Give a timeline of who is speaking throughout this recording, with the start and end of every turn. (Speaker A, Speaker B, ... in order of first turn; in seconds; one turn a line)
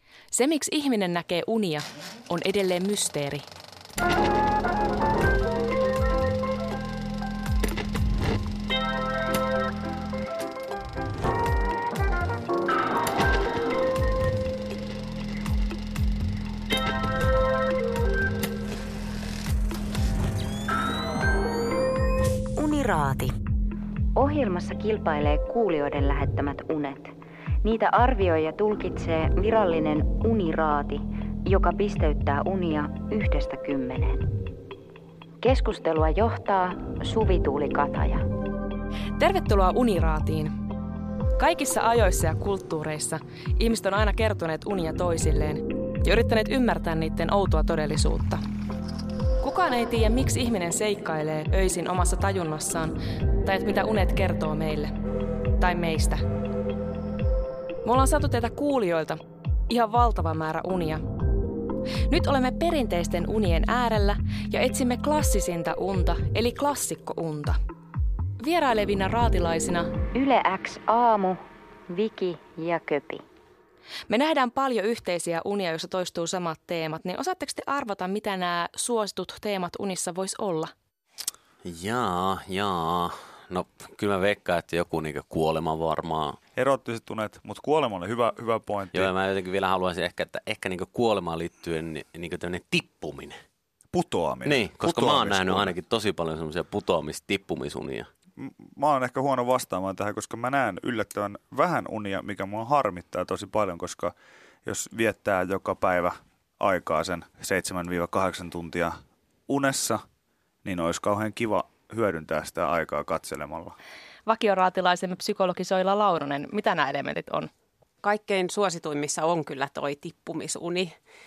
Speaker A: 0.3-3.5
Speaker B: 22.6-23.3
Speaker B: 24.1-34.2
Speaker B: 35.4-38.2
Speaker A: 39.2-40.5
Speaker A: 41.4-48.4
Speaker A: 49.4-54.9
Speaker A: 55.6-56.2
Speaker A: 57.8-61.0
Speaker A: 62.1-67.6
Speaker A: 68.4-69.9
Speaker B: 70.1-73.2
Speaker A: 74.1-80.7
Speaker C: 81.6-86.4
Speaker D: 86.5-89.1
Speaker C: 88.9-93.4
Speaker D: 93.9-95.7
Speaker C: 94.4-98.1
Speaker D: 98.4-104.1
Speaker D: 104.6-110.0
Speaker D: 110.6-113.8
Speaker A: 114.2-117.5
Speaker E: 118.0-120.9